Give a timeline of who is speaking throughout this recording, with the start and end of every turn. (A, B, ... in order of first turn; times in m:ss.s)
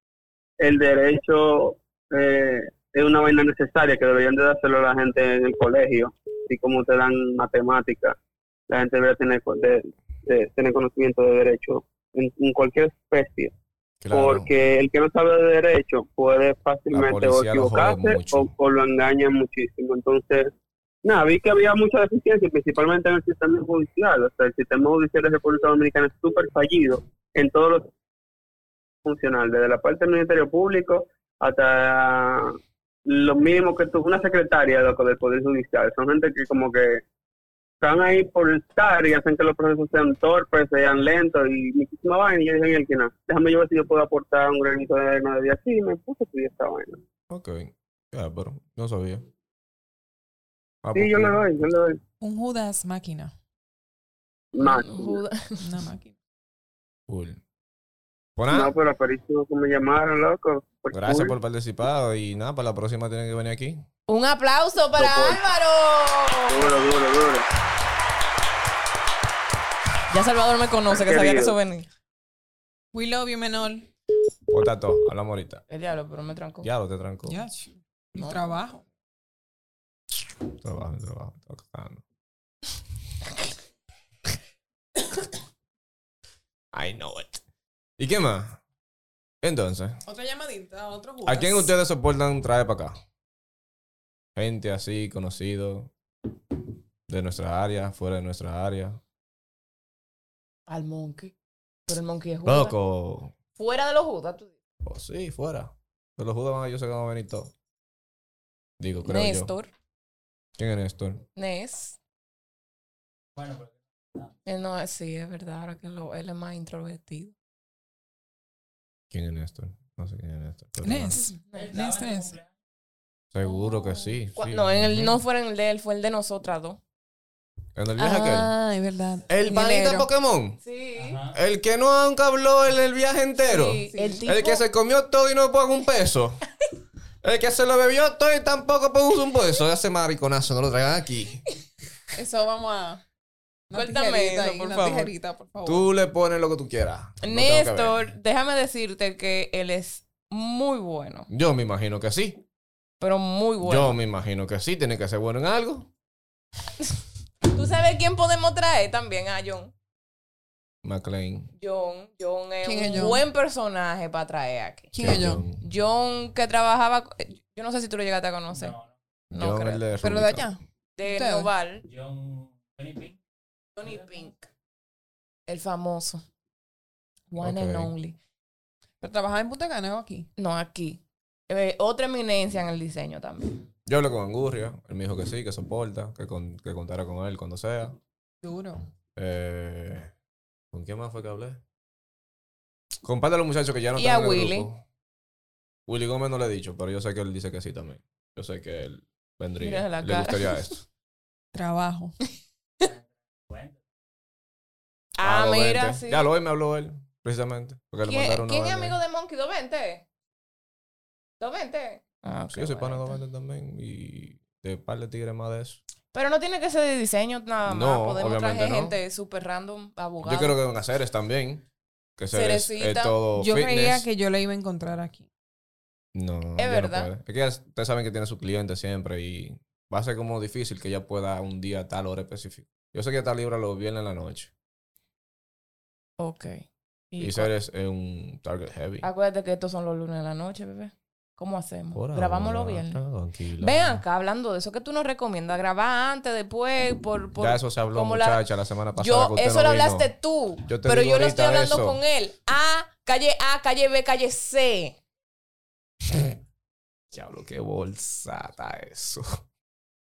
0:00.6-0:08.1 A
0:08.7-0:13.5 A
0:14.0-0:14.5 B
0:14.1-0:20.5 A
0:16.9-0:18.5 B
0:21.0-0:27.9 A
0:29.0-0:37.0 A
0:37.8-0:47.0 A
0:47.3-0:49.3 B
0:50.8-0:51.4 B
0:50.9-0:52.0 A
0:52.2-0:53.3 C
0:54.5-0:55.2 A
0:54.6-0:55.6 D
0:55.6-0:56.1 C
0:57.1-0:57.4 B
0:58.4-0:58.7 B
0:58.5-1:01.3 A
1:00.9-1:03.8 B
1:04.1-1:06.8 D
1:05.0-1:05.4 A
1:06.5-1:07.4 A
1:10.1-1:11.9 D
1:10.9-1:11.6 A
1:12.9-1:13.9 C
1:14.5-1:15.6 B
1:15.7-1:16.7 D
1:16.6-1:17.4 B
1:17.3-1:18.8 C
1:20.6-1:22.0 B
1:26.7-1:27.4 B
1:28.0-1:28.6 B
1:29.4-1:30.0 B
1:30.0-1:31.7 C
1:31.2-1:33.0 B
1:34.4-1:35.9 B
1:37.1-1:39.0 B
1:40.7-1:41.3 D
1:41.9-1:42.7 D
1:42.4-1:43.3 B
1:43.6-1:44.5 D
1:44.8-1:47.5 B
1:48.8-1:49.5 B
1:49.0-1:49.7 D
1:50.6-1:51.2 B
1:51.4-1:52.0 D
1:53.4-1:54.3 E
1:54.4-1:57.3 D
1:59.1-2:01.2 B
2:00.8-2:02.4 C
2:01.3-2:01.8 D
2:01.5-2:02.5 E
2:03.3-2:05.2 B
2:03.4-2:04.2 C
2:04.4-2:06.8 D
2:07.7-2:08.5 B
2:08.0-2:10.1 C
2:09.3-2:10.6 B
2:10.6-2:11.2 D
2:11.0-2:11.4 E
2:11.3-2:16.4 B
2:13.4-2:14.6 D
2:13.9-2:14.3 C
2:17.2-2:21.4 B
2:22.1-2:23.0 C
2:23.7-2:25.9 C
2:23.7-2:25.1 D
2:25.6-2:28.0 B
2:27.2-2:31.3 D
2:31.3-2:32.4 B
2:33.0-2:34.0 D
2:33.6-2:35.9 B
2:37.4-2:39.7 D
2:40.8-2:41.5 B
2:41.6-2:44.9 D
2:42.6-2:43.2 C
2:44.9-2:45.4 C
2:45.0-2:45.6 B
2:45.6-2:48.7 D
2:48.5-2:48.9 E
2:49.3-2:50.5 B
2:49.3-2:49.8 D
2:50.0-2:51.5 C
2:51.0-2:51.8 D
2:51.8-2:53.2 E
2:53.8-2:54.5 D
2:53.8-2:54.1 E
2:55.5-2:56.2 D
2:57.3-2:58.2 D
2:57.4-2:57.9 B
2:59.0-3:00.3 C
3:00.4-3:03.6 D
3:03.8-3:08.0 B
3:08.4-3:08.8 C
3:09.2-3:10.1 B
3:10.7-3:11.6 B
3:13.0-3:14.8 B
3:14.0-3:14.7 D
3:15.9-3:20.8 B
3:19.6-3:20.7 D
3:21.5-3:22.2 C
3:22.8-3:23.8 E
3:25.2-3:26.3 D
3:25.2-3:29.0 B
3:28.0-3:30.0 D
3:31.4-3:33.2 D
3:32.5-3:35.8 B
3:36.1-3:40.6 D
3:37.6-3:39.0 B
3:40.2-3:41.6 B
3:42.2-3:44.1 B
3:42.3-3:43.2 D
3:43.4-3:45.3 C
3:46.1-3:54.5 B
3:46.6-3:47.1 D
3:56.2-3:57.5 D
3:57.2-3:59.1 B
3:59.0-4:03.0 D
4:01.9-4:04.0 B
4:03.6-4:08.4 D
4:07.4-4:10.1 B
4:09.0-4:15.0 D
4:10.6-4:12.0 B
4:17.1-4:19.4 B